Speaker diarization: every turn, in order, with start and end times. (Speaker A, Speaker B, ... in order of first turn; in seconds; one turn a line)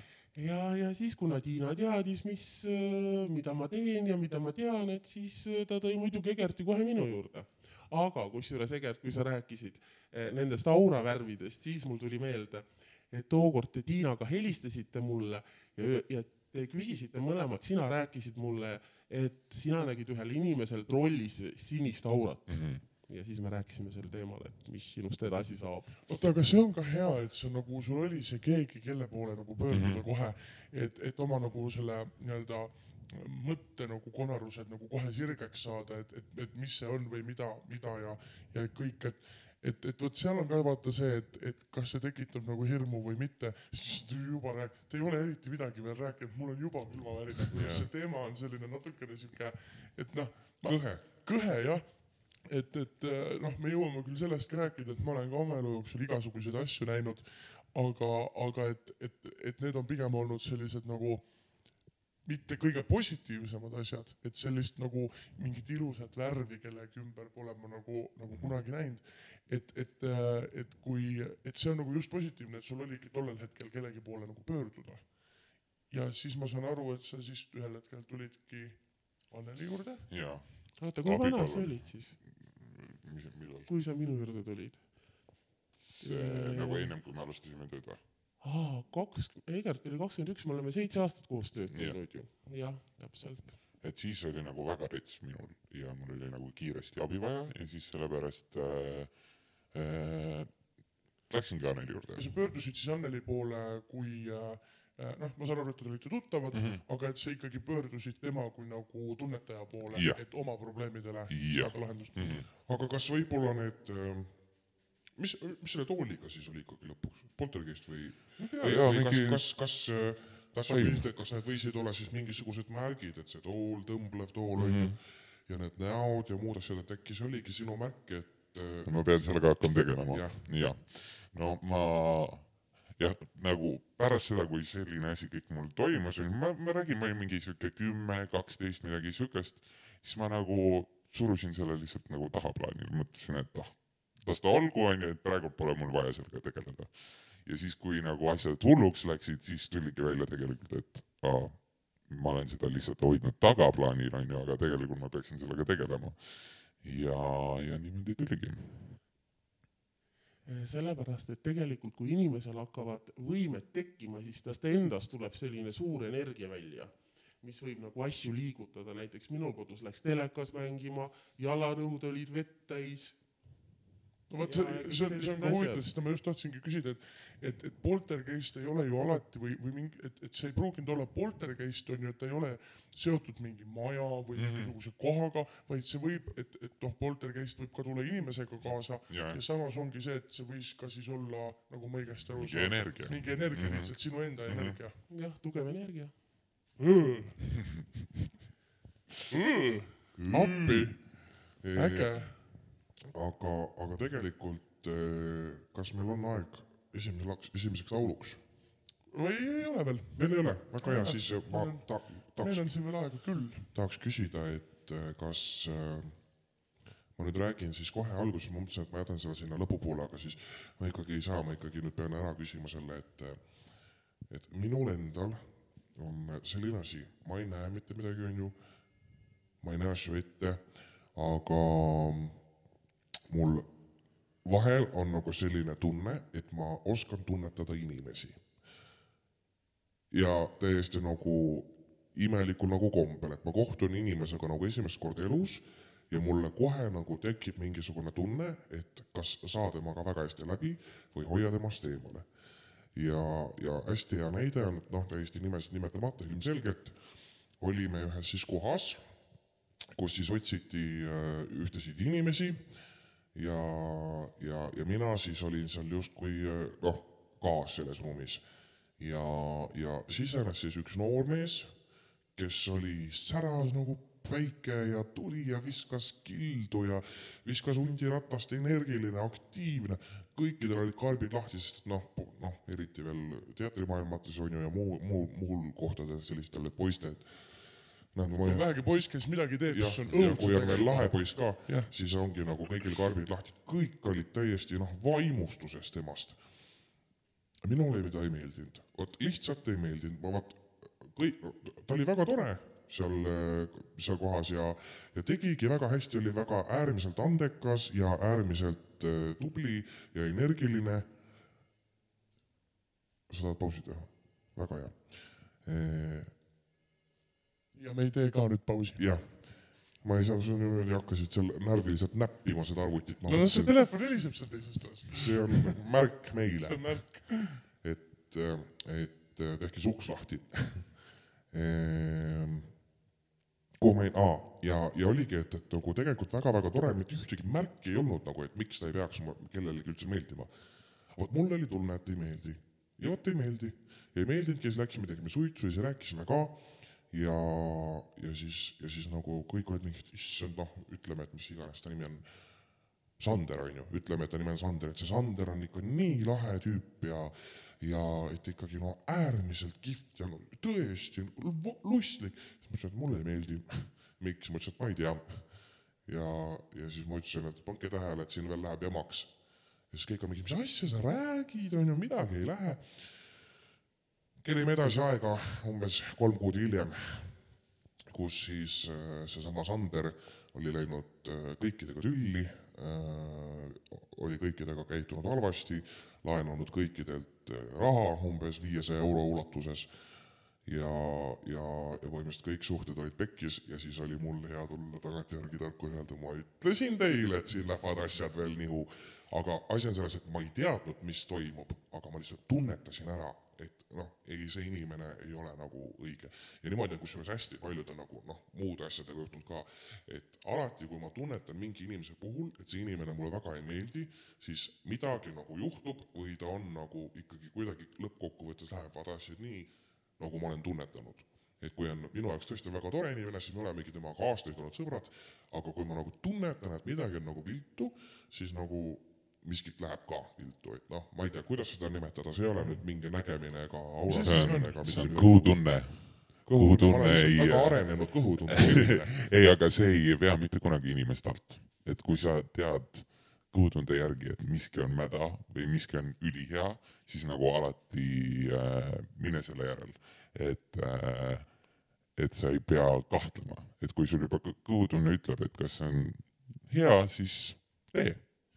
Speaker A: 0.3-25.9
Speaker B: 22.5-22.8
Speaker C: 26.1-80.1
Speaker B: 29.7-30.1
Speaker D: 47.5-47.9
Speaker D: 50.6-51.1
Speaker B: 80.1-83.7
Speaker A: 80.8-82.2
Speaker A: 83.7-85.5
Speaker B: 85.9-88.0
Speaker A: 86.0-87.0
Speaker A: 88.4-93.6
Speaker B: 91.7-92.0
Speaker B: 93.8-102.4
Speaker C: 102.2-112.5
Speaker B: 106.5-106.8
Speaker B: 109.9-112.5
Speaker D: 112.3-130.7
Speaker B: 118.4-120.1
Speaker B: 120.7-121.1
Speaker B: 124.6-125.0
Speaker B: 128.8-159.0
Speaker A: 160.4-173.2
Speaker C: 174.3-195.0
Speaker A: 174.4-175.8
Speaker B: 184.3-184.8
Speaker B: 188.7-189.4
Speaker B: 192.3-194.8
Speaker A: 195.1-196.3
Speaker C: 196.8-197.5
Speaker C: 199.3-202.5
Speaker B: 200.2-201.0
Speaker D: 201.6-208.4
Speaker C: 209.1-213.7
Speaker D: 210.2-228.6
Speaker D: 229.6-232.5
Speaker D: 233.3-233.7
Speaker D: 234.4-238.5
Speaker D: 240.1-252.3
Speaker D: 252.9-257.0
Speaker D: 257.5-259.4
Speaker D: 259.9-289.4
Speaker C: 288.4-291.9
Speaker B: 289.7-291.0
Speaker D: 290.0-296.7
Speaker D: 297.6-311.1
Speaker D: 313.3-316.4
Speaker C: 317.7-319.2
Speaker D: 319.0-332.8
Speaker C: 323.2-327.6
Speaker D: 333.8-373.3
Speaker D: 374.4-377.5
Speaker D: 378.1-439.2
Speaker C: 434.0-434.9
Speaker B: 434.1-458.2